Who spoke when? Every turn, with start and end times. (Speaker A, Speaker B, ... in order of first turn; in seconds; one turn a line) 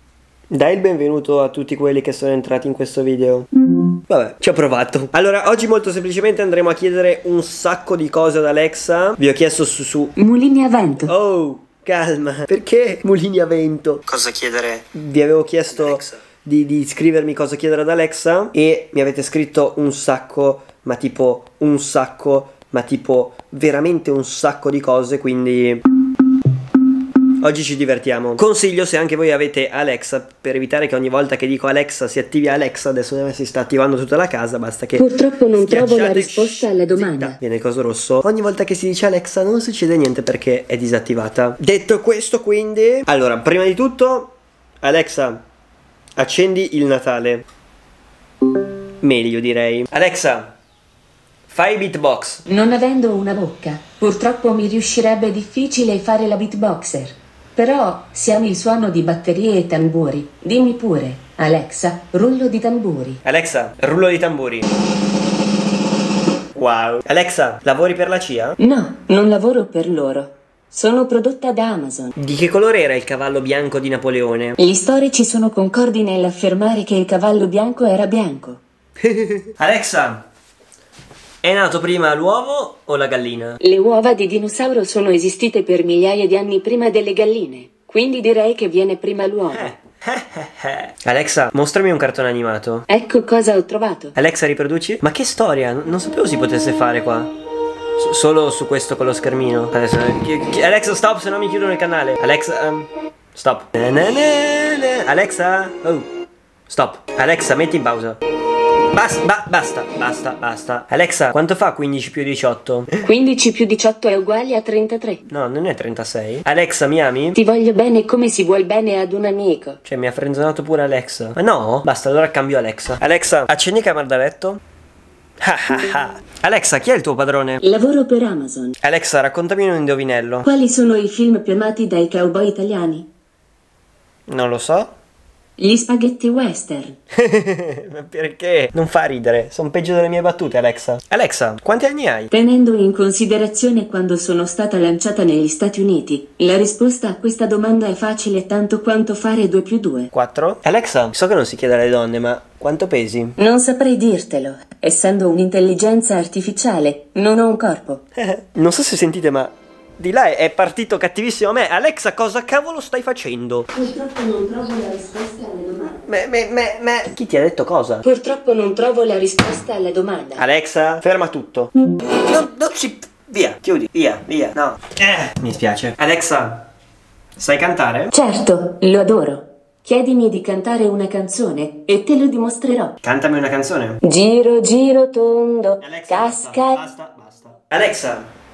Speaker A: 0.5-3.5
Speaker A: 4.1-10.2
Speaker B: 10.2-11.1
Speaker A: 11.0-25.8
Speaker A: 27.4-45.4
Speaker B: 35.0-37.4
Speaker A: 46.2-47.5
Speaker A: 49.0-50.5
Speaker A: 51.5-52.4
Speaker B: 52.5-63.2
Speaker A: 63.2-64.7
Speaker A: 66.5-68.6
Speaker B: 68.6-72.1
Speaker A: 72.2-74.6
Speaker B: 74.6-78.6
Speaker A: 79.0-80.2
Speaker A: 81.4-83.6
Speaker B: 83.6-89.7
Speaker A: 89.5-92.8
Speaker B: 92.9-94.1
Speaker A: 94.2-97.3
Speaker A: 98.0-106.1
Speaker A: 106.7-108.2
Speaker A: 108.9-113.0
Speaker B: 113.0-115.2
Speaker A: 115.3-117.4
Speaker B: 117.3-119.8
Speaker A: 119.8-124.6
Speaker A: 125.4-127.6
Speaker B: 127.6-128.8
Speaker A: 128.8-130.5
Speaker B: 130.4-133.1
Speaker A: 134.3-134.9
Speaker B: 135.6-137.0
Speaker A: 137.2-142.3
Speaker B: 142.3-150.1
Speaker A: 150.1-153.4
Speaker B: 153.4-158.0
Speaker A: 158.2-163.7
Speaker B: 163.7-166.0
Speaker A: 166.1-168.0
Speaker B: 168.0-170.4
Speaker A: 170.4-176.7
Speaker A: 177.4-178.1
Speaker B: 178.1-183.0
Speaker A: 183.0-184.0
Speaker B: 184.0-186.8
Speaker A: 185.8-188.3